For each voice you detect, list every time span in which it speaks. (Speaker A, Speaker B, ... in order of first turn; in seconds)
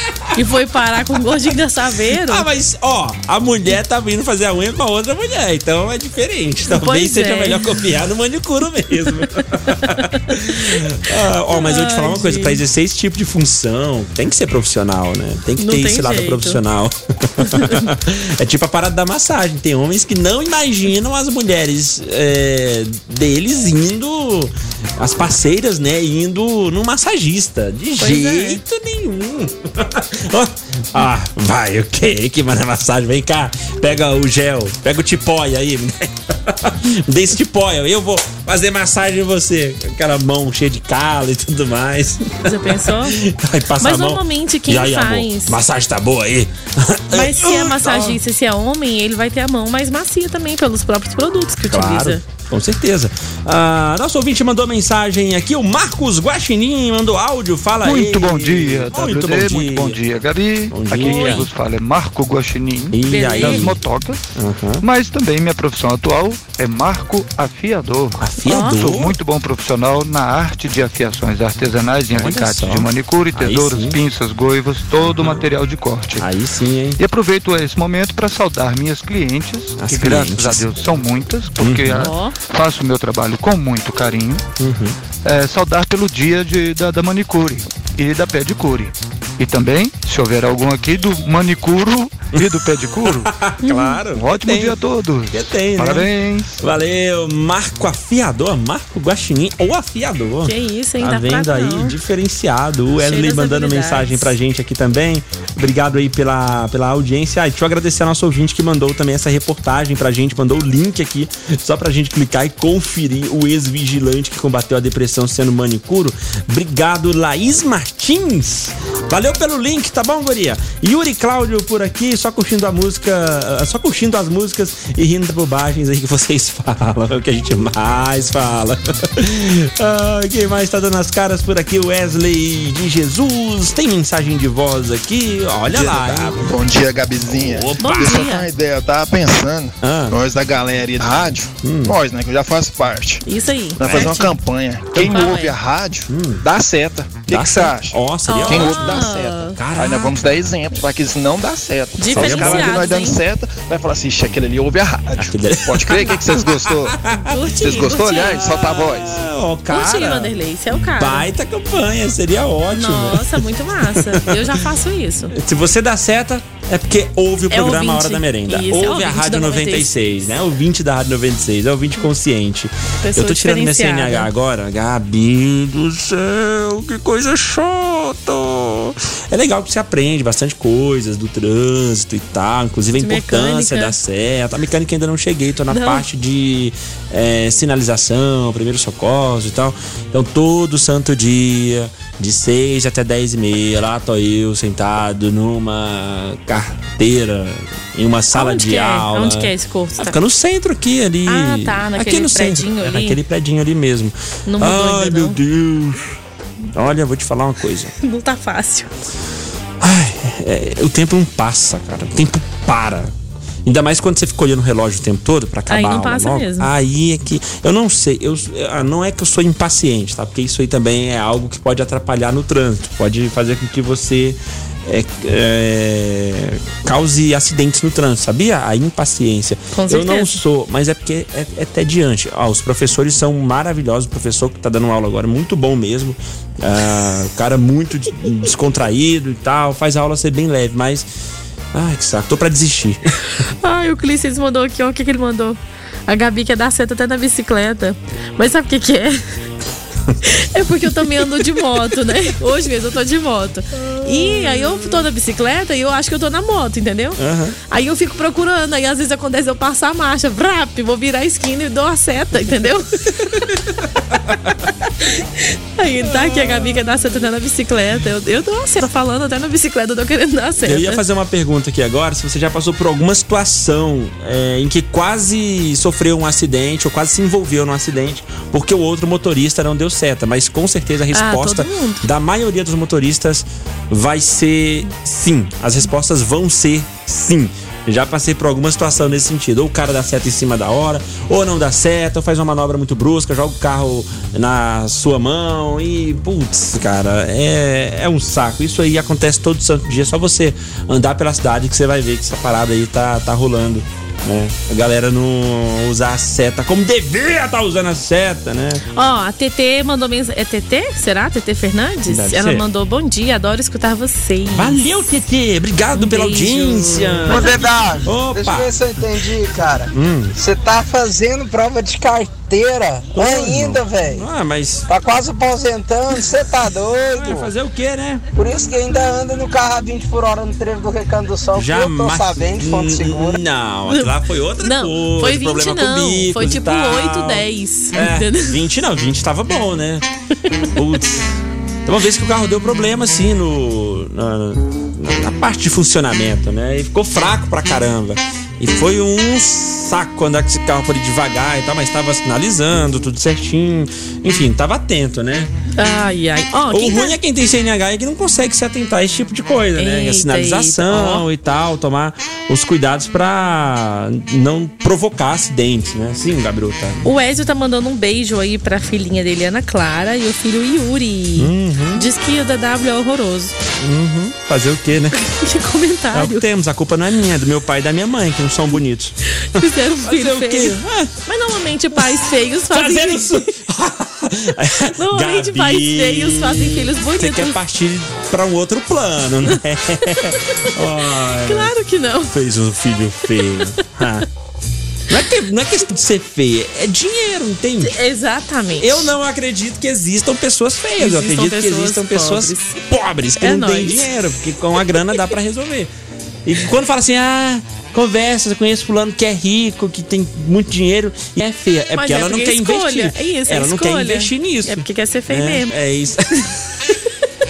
Speaker A: 0.3-2.5, 6.7-7.7, 9.8-10.2, 11.5-12.6, 15.6-16.6, 17.4-17.9, 28.0-28.6, 42.4-43.1, 43.8-45.6, 47.1-52.2, 61.0-61.4, 63.1-63.6, 68.5-68.8, 81.9-82.3, 93.6-94.0, 100.4-101.9, 103.0-104.3, 137.8-138.5, 143.2-144.4, 145.0-145.6, 148.3-149.6, 152.0-153.2, 157.2-158.5, 159.7-161.3, 162.7-165.3, 167.5-169.9, 173.0-174.3, 183.0-183.9, 185.7-186.0, 198.3-200.2, 201.2-203.2, 204.5-205.4, 208.0-208.9, 215.7-216.7, 229.7-230.4, 243.6-249.2, 250.2-263.3, 265.0-271.0, 281.1-282.1, 308.9-314.8, 315.9-317.5, 333.9-338.6, 355.8-357.2, 359.8-361.2, 367.0-373.6, 375.2-376.4, 379.4-383.5, 385.0-387.6, 391.2-392.3, 397.8-399.1, 401.0-402.8, 403.4-404.1, 411.9-415.7
Speaker B: 2.2-48.2, 51.7-60.0, 60.7-61.5, 62.9-63.8, 64.3-64.8, 68.2-69.2, 72.1-74.0, 75.0-75.5, 76.2-77.0, 79.8-80.6, 81.6-82.1, 84.6-85.0, 93.0-94.8, 95.3-136.4, 137.3-138.3, 139.8-140.2, 141.6-141.9, 143.8-144.2, 144.9-145.2, 146.1-146.4, 147.3-150.1, 152.1-152.8, 155.2-157.5, 158.2-164.6, 165.3-206.2, 206.7-207.9, 209.8-213.1, 213.6-241.1, 241.7-243.0, 254.0-254.6, 257.2-257.6, 266.0-267.0, 270.6-308.8, 312.1-312.6, 314.5-318.8, 319.9-320.4, 323.1-324.9, 327.1-328.2, 331.5-340.0, 340.8-355.5, 356.7-367.0, 371.4-372.1, 373.8-375.2, 376.1-381.1, 382.7-391.7, 392.3-394.2, 395.1-397.9, 398.8-405.9, 406.4-416.6
Speaker C: 57.8-64.2, 64.8-76.3, 77.0-84.4, 85.2-93.3, 94.1-96.5
Speaker D: 135.7-143.2, 143.8-157.0, 157.6-159.2
Speaker E: 317.3-324.2, 324.9-327.5, 328.4-333.4